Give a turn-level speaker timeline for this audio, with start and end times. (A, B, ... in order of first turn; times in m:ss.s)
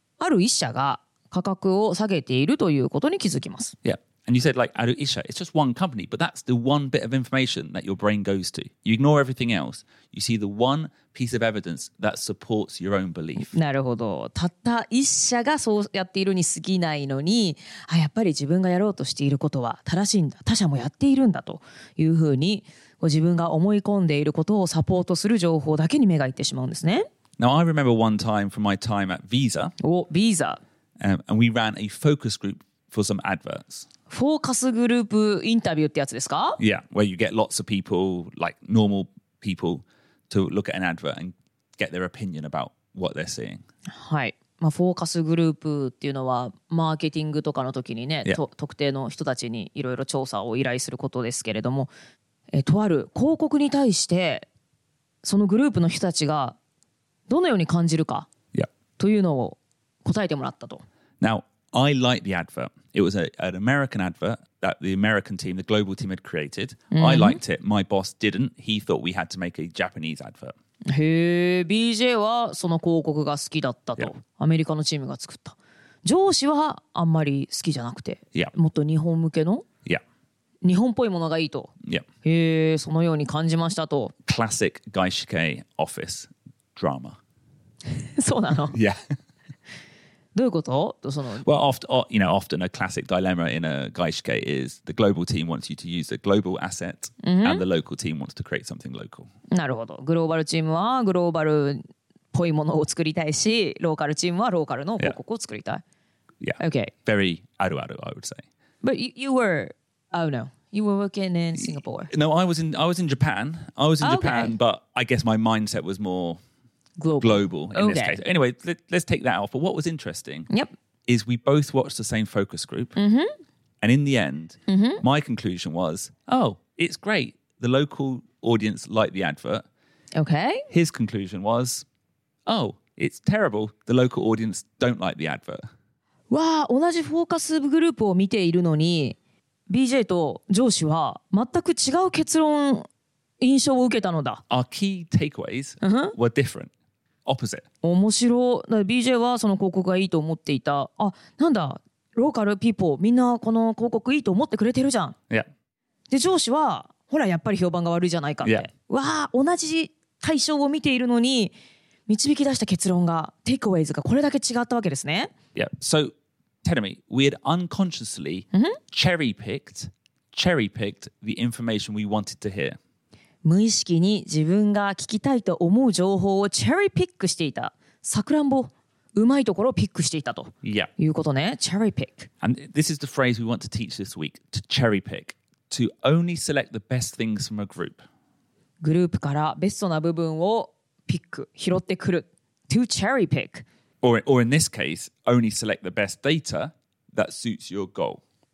0:00.2-0:03.7 A
0:03.8-0:13.5 B
0:13.4-0:27.0 A
0:27.4-0:29.7 B
0:29.8-0:30.6 A
0:31.0-0:33.9 B
0:34.1-0:36.6 A
0:36.6-0:43.6 B
0:43.9-0:51.9 A
0:52.5-0:54.5 A
0:55.2-0:56.6 A
0:57.3-0:58.3 A
0:59.0-1:00.8 A
1:01.2-1:10.5 B
1:06.9-1:07.4 A
1:10.9-1:19.6 A
1:20.6-1:21.7 A
1:22.2-1:24.1 A
1:24.3-1:27.2 B
1:27.9-1:28.8 A
1:28.7-1:29.0 B
1:30.3-1:31.4 A
1:31.4-1:39.3 B
1:37.2-1:37.6 A
1:39.5-1:41.8 A
1:42.3-1:45.8 A
1:46.4-1:48.4 B
1:46.6-1:46.9 A
1:48.8-1:52.1 A
1:51.6-1:56.4 B
1:54.0-1:54.6 A
1:57.0-1:58.2 A
1:57.2-2:00.5 B
2:01.1-2:03.0 B
2:03.0-2:03.3 A
2:03.8-2:09.6 B
2:04.7-2:05.0 A
2:10.1-2:10.6 A
2:10.7-2:11.8 B
2:12.4-2:15.6 B
2:16.3-2:19.2 A
2:19.7-2:22.9 A
2:23.4-2:24.4 A
2:24.5-2:26.7 B
2:25.8-2:26.2 A
2:27.2-2:27.6 B
2:27.8-2:35.2 A
2:36.1-2:41.5 A
2:42.1-2:45.3 A
2:45.5-2:46.1 B
2:46.6-2:52.8 B
2:48.5-2:48.8 A
2:53.4-3:02.3 A
3:00.6-3:00.9 B
3:02.4-3:08.0 B
3:08.8-3:13.6 A
3:14.0-3:18.2 B